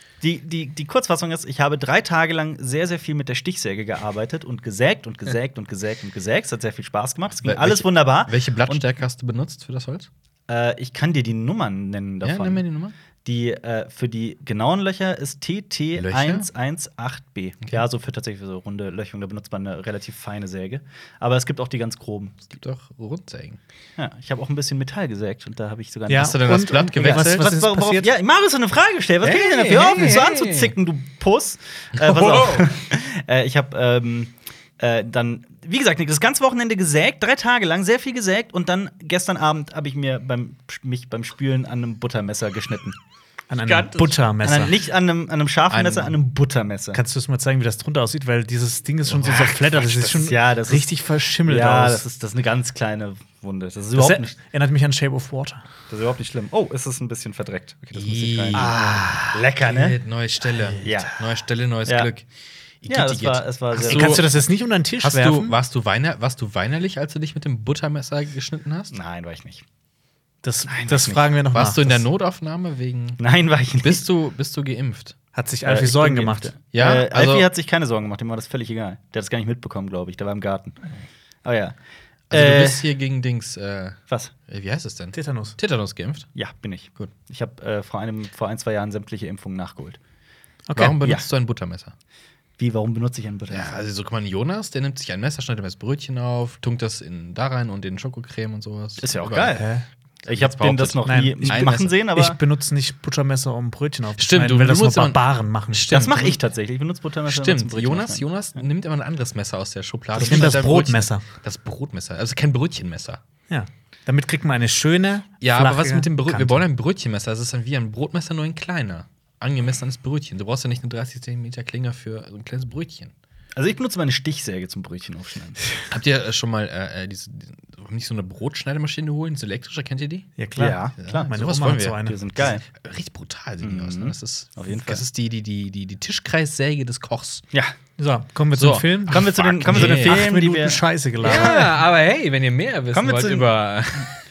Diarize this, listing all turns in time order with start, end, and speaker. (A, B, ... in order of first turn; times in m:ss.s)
0:00.2-0:08.8 A
0:07.4-0:10.1 B
0:10.5-0:12.6 A
0:12.2-0:12.9 B
0:13.2-0:22.6 A
0:16.0-0:16.5 B
0:22.6-0:23.6 B
0:24.0-0:43.0 A
0:26.1-0:28.1 C
0:26.1-0:27.5 B
0:29.2-0:30.7 B
0:31.9-0:32.7 B
0:43.5-0:44.7 C
0:43.7-0:44.0 B
0:44.4-0:47.0 A
0:45.7-0:46.1 B
0:46.9-0:52.0 C
0:49.1-0:50.9 A
0:51.4-0:54.3 A
0:53.9-0:55.6 C
0:55.9-0:58.8 A
0:57.9-1:02.3 B
0:58.5-0:59.4 C
0:59.3-1:00.0 A
1:00.8-1:01.2 A
1:01.8-1:02.1 A
1:02.8-1:04.3 B
1:02.9-1:04.3 A
1:03.8-1:05.5 C
1:05.0-1:08.9 B
1:08.9-1:09.6 A
1:10.4-1:12.0 C
1:10.7-1:11.3 A
1:11.5-1:13.2 B
1:13.2-1:14.0 A
1:13.8-1:15.1 B
1:15.3-1:16.5 C
1:15.6-1:20.8 A
1:16.7-1:17.4 B
1:21.4-1:21.7 A
1:22.3-1:26.3 B
1:22.3-1:22.9 A
1:25.1-1:25.6 C
1:26.3-1:30.0 A
1:30.7-1:31.0 C
1:30.7-1:31.9 B
1:32.6-1:33.8 A
1:33.5-1:39.6 B
1:39.0-1:39.6 A
1:39.5-1:39.8 C
1:40.2-1:41.9 B
1:40.2-1:42.4 A
1:41.0-1:46.1 C
1:44.2-1:46.4 B
1:45.9-1:48.2 A
1:47.3-1:53.2 B
1:50.2-1:51.2 C
1:53.5-1:56.6 C
1:55.4-2:03.1 B
2:03.6-2:05.6 A
2:05.9-2:10.3 B
2:10.4-2:12.2 C
2:10.6-2:11.3 A
2:11.0-2:17.4 B
2:12.0-2:12.6 A
2:13.6-2:15.0 A
2:18.0-2:21.7 C
2:18.5-2:20.3 B
2:19.1-2:21.7 A
2:21.2-2:24.1 B
2:22.9-2:23.5 A